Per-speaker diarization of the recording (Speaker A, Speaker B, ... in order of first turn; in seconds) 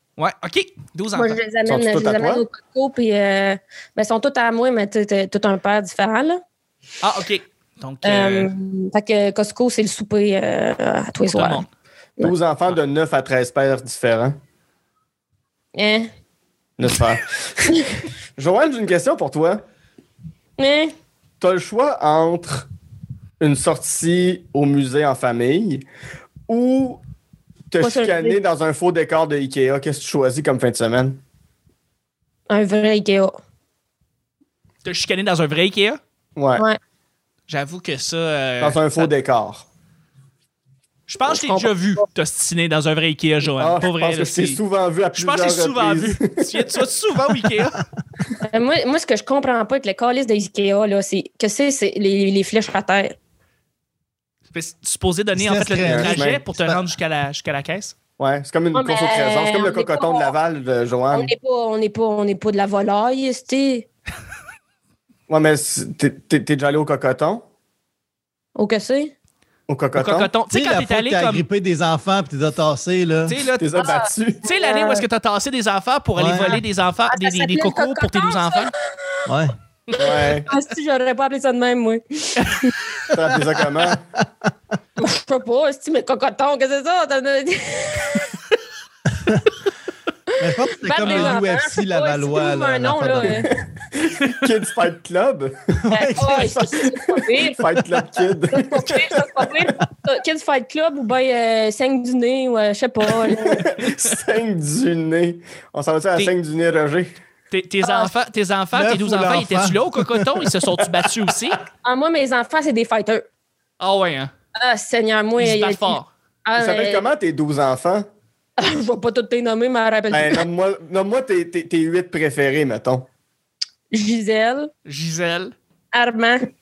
Speaker A: 0.2-1.4, 7.0-8.5, 11.3-11.7, 34.8-36.0, 37.5-39.1, 41.1-44.6, 45.1-47.8, 54.5-58.0, 70.0-71.4, 73.3-78.7, 107.5-111.6, 113.8-114.3, 115.4-116.1, 124.8-125.5
Speaker B: 1.1-6.4, 8.0-11.6, 15.7-16.1, 20.6-20.9, 27.8-28.4, 32.5-33.4, 41.3-42.0, 48.4-53.1, 58.7-60.3, 61.1-63.9, 68.5-69.1, 73.8-75.0, 77.1-79.2, 79.9-82.7, 85.0-88.3, 90.7-93.5, 95.9-97.6, 98.5-103.7, 107.8-108.1, 111.8-113.2, 114.6-117.0, 118.6-120.4, 123.9-124.7, 125.9-126.5
Speaker C: 1.6-2.4, 12.2-14.4, 16.8-17.8, 18.4-19.6, 21.4-22.7, 23.4-25.8, 26.5-27.0, 27.7-31.2, 36.4-36.6, 38.6-39.6, 43.6-46.6, 55.8-56.4, 58.2-61.3, 65.3-67.5, 69.7-70.3, 73.6-74.4, 80.0-80.5, 83.1-84.0, 93.5-95.7, 96.2-99.6, 103.3-107.1, 116.5-118.1, 120.1-123.1
Speaker D: 55.3-56.8, 70.5-73.4, 76.2-76.6, 79.2-79.5, 89.2-89.6, 90.4-93.5, 95.8-96.6, 108.7-110.5